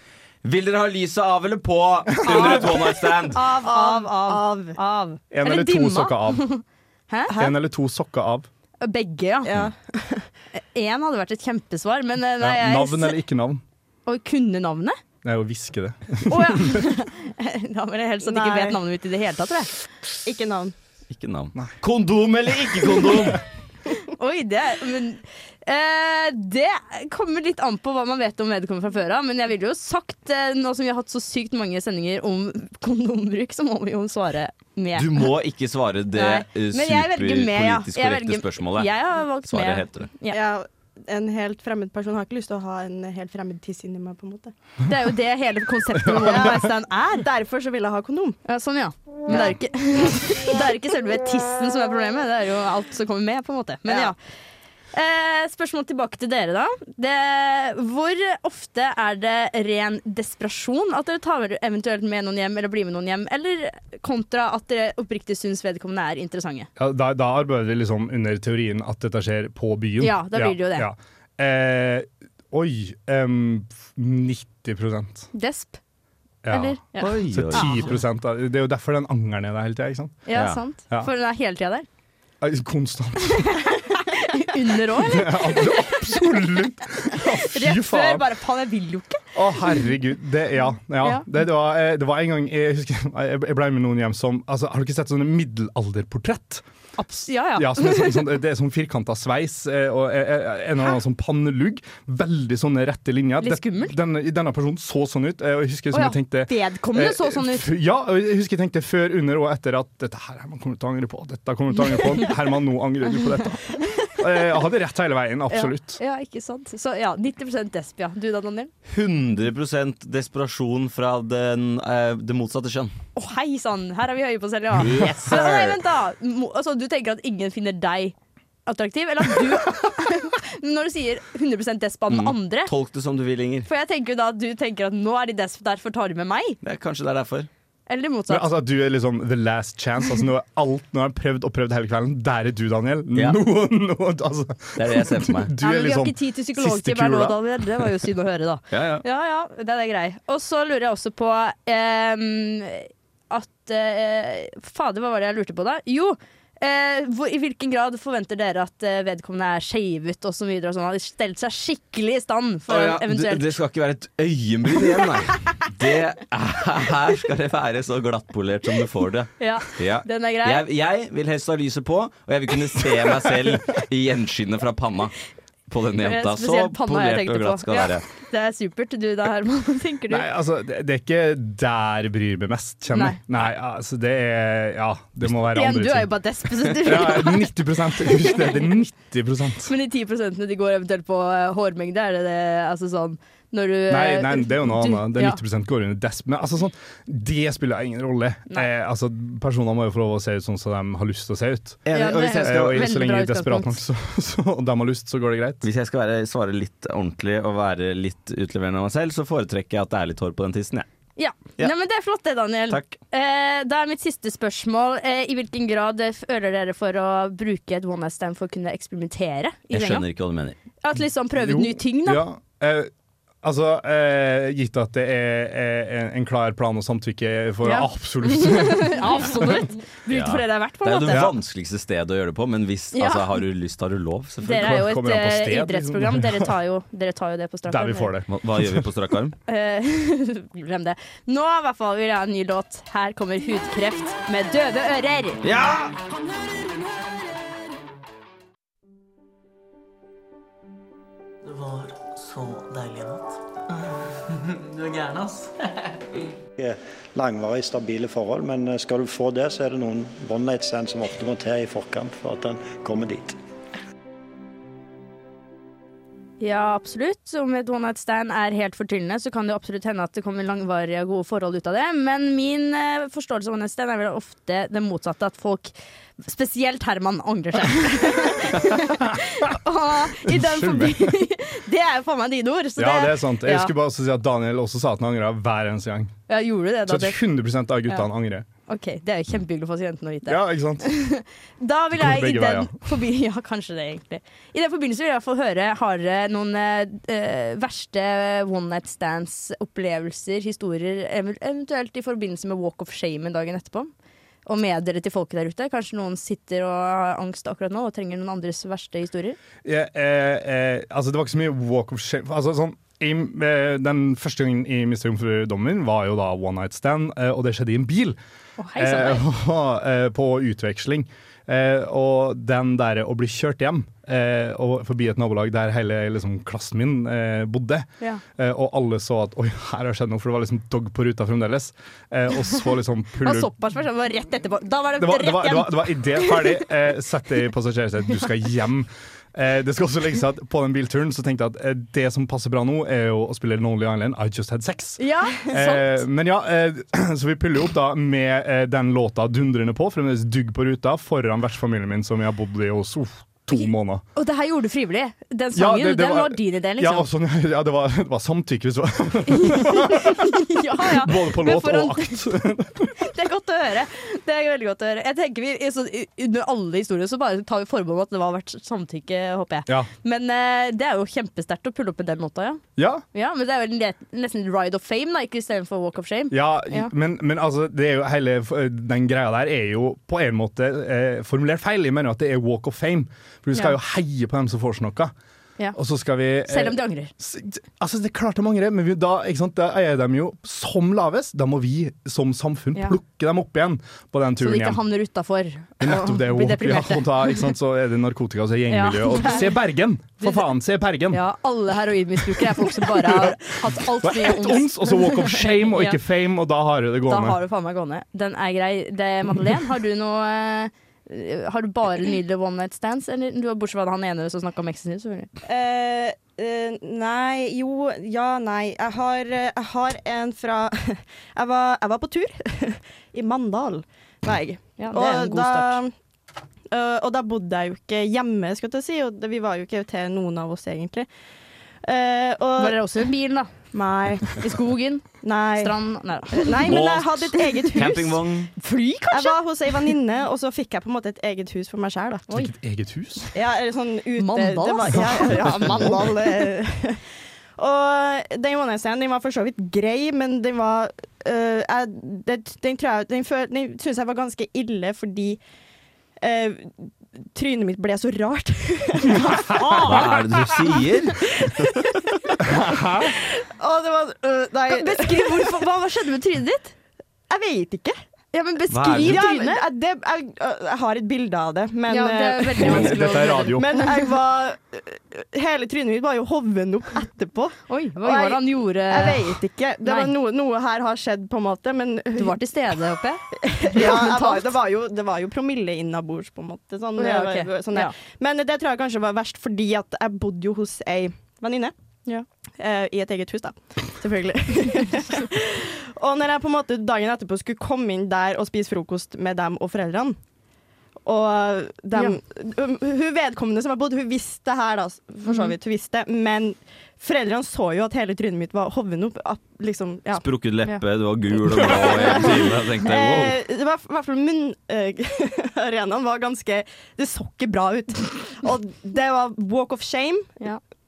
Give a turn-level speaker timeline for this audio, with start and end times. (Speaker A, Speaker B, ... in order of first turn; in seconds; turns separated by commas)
Speaker A: 0.4-3.4, Speaker B: 2.2-2.8, Speaker B: 3.3-7.3, Speaker C: 3.6-4.8, Speaker D: 5.3-6.5, Speaker D: 7.3-8.5, Speaker B: 8.8-9.5, Speaker C: 9.4-10.3, Speaker B: 10.5-13.2, Speaker D: 12.4-13.6, Speaker B: 14.1-14.9, Speaker D: 15.2-16.9, Speaker B: 16.3-19.7, Speaker C: 18.2-18.8, Speaker C: 20.2-20.7, Speaker A: 21.1-23.4, Speaker B: 24.1-35.3, Speaker A: 35.0-38.9, Speaker B: 36.1-40.4, Speaker A: 39.5-40.1, Speaker C: 40.3-44.5, Speaker B: 44.9-47.3, Speaker C: 46.1-48.4, Speaker B: 48.5-54.2, Speaker C: 49.3-49.5, Speaker C: 50.1-50.5, Speaker C: 53.9-54.1, Speaker B: 54.9-66.7, Speaker D: 66.8-75.3, Speaker B: 70.0-70.9, Speaker B: 75.3-75.8, Speaker D: 76.4-80.2, Speaker B: 76.5-77.9, Speaker A: 77.0-78.0, Speaker B: 80.2-81.8, Speaker A: 80.3-80.6, Speaker D: 82.4-83.6, Speaker B: 83.6-86.2, Speaker D: 84.9-88.3, Speaker B: 87.5-89.8, Speaker D: 89.3-96.6, Speaker B: 97.0-98.3, Speaker D: 97.3-116.0, Speaker B: 103.4-104.0, Speaker B: 105.9-107.7, Speaker B: 115.5-118.7, Speaker A: 118.9-122.9, Speaker B: 123.2-128.1, Speaker A: 124.8-125.8, Speaker B: 128.7-132.7, Speaker A: 132.1-133.7, Speaker B: 133.7-136.6, Speaker A: 136.6-137.5, Speaker B: 137.9-138.4, Speaker D: 138.3-147.9, Speaker A: 144.8-145.5, Speaker B: 145.6-163.5, Speaker A: 148.7-149.0, Speaker A: 162.7-175.1, Speaker B: 169.4-170.6, Speaker A: 175.7-178.0, Speaker B: 176.0-180.3, Speaker D: 180.1-189.7, Speaker B: 182.9-183.2, Speaker B: 185.5-187.5, Speaker B: 188.0-188.6, Speaker B: 189.7-195.4, Speaker D: 193.9-201.8, Speaker A: 201.8-202.9, Speaker B: 201.9-203.8, Speaker D: 202.4-205.6, Speaker A: 205.6-210.8, Speaker B: 211.2-220.1, Speaker A: 212.7-212.9, Speaker A: 219.7-220.6, Speaker B: 220.8-222.2, Speaker D: 221.3-222.9, Speaker D: 223.4-229.5, Speaker B: 227.6-231.2, Speaker A: 230.1-234.8, Speaker D: 231.1-231.3, Speaker B: 232.9-233.2, Speaker B: 234.4-238.1, Speaker D: 234.5-236.5, Speaker D: 237.7-238.9, Speaker A: 238.3-239.3, Speaker B: 239.5-245.4, Speaker A: 245.4-245.9, Speaker E: 251.4-255.5, Speaker F: 256.6-263.4, Speaker B: 266.4-283.7, Speaker D: 278.9-279.5, Speaker D: 280.1-281.2, Speaker D: 282.8-286.1, Speaker B: 286.3-287.2, Speaker D: 286.9-288.4, Speaker B: 288.7-303.9, Speaker D: 290.2-290.9, Speaker D: 291.9-292.9, Speaker B: 304.4-309.4, Speaker D: 309.6-318.2, Speaker B: 318.6-319.2, Speaker D: 318.8-333.5, Speaker B: 333.2-336.6, Speaker D: 335.0-354.0, Speaker B: 345.0-346.0, Speaker B: 353.5-357.1, Speaker D: 355.5-363.1, Speaker B: 359.4-362.2, Speaker B: 363.0-372.6, Speaker D: 372.8-373.0, Speaker B: 373.1-376.9, Speaker D: 376.3-385.1, Speaker D: 385.7-394.8, Speaker B: 386.5-387.1, Speaker B: 394.4-397.4, Speaker D: 395.8-401.2, Speaker B: 398.7-399.5, Speaker B: 401.1-406.0, Speaker D: 402.2-407.4, Speaker B: 407.1-415.3, Speaker C: 415.4-425.9, Speaker B: 424.8-425.8, Speaker C: 426.7-431.1, Speaker C: 431.8-432.8, Speaker B: 432.6-433.5, Speaker C: 433.7-434.5, Speaker B: 434.2-436.8, Speaker C: 435.2-435.8, Speaker C: 436.3-438.2, Speaker A: 436.6-438.5, Speaker B: 438.6-439.4, Speaker C: 439.1-442.3, Speaker D: 442.3-443.3, Speaker C: 443.3-447.0, Speaker B: 444.2-445.9, Speaker D: 445.0-446.0, Speaker C: 447.6-455.4, Speaker C: 456.2-460.2, Speaker D: 459.3-459.6, Speaker B: 459.5-460.1, Speaker A: 459.8-461.7, Speaker C: 461.4-462.3, Speaker D: 462.4-463.1, Speaker C: 463.0-465.6, Speaker B: 464.7-466.7, Speaker C: 467.3-467.9, Speaker B: 468.3-469.6, Speaker A: 468.7-469.2, Speaker C: 469.0-482.4, Speaker B: 471.9-473.9, Speaker D: 472.6-473.8, Speaker B: 477.7-480.1, Speaker B: 482.1-484.5, Speaker C: 483.4-491.7, Speaker B: 487.0-487.9, Speaker C: 492.6-500.2, Speaker C: 501.0-510.2, Speaker B: 505.2-505.5, Speaker A: 510.1-513.4, Speaker C: 511.7-520.3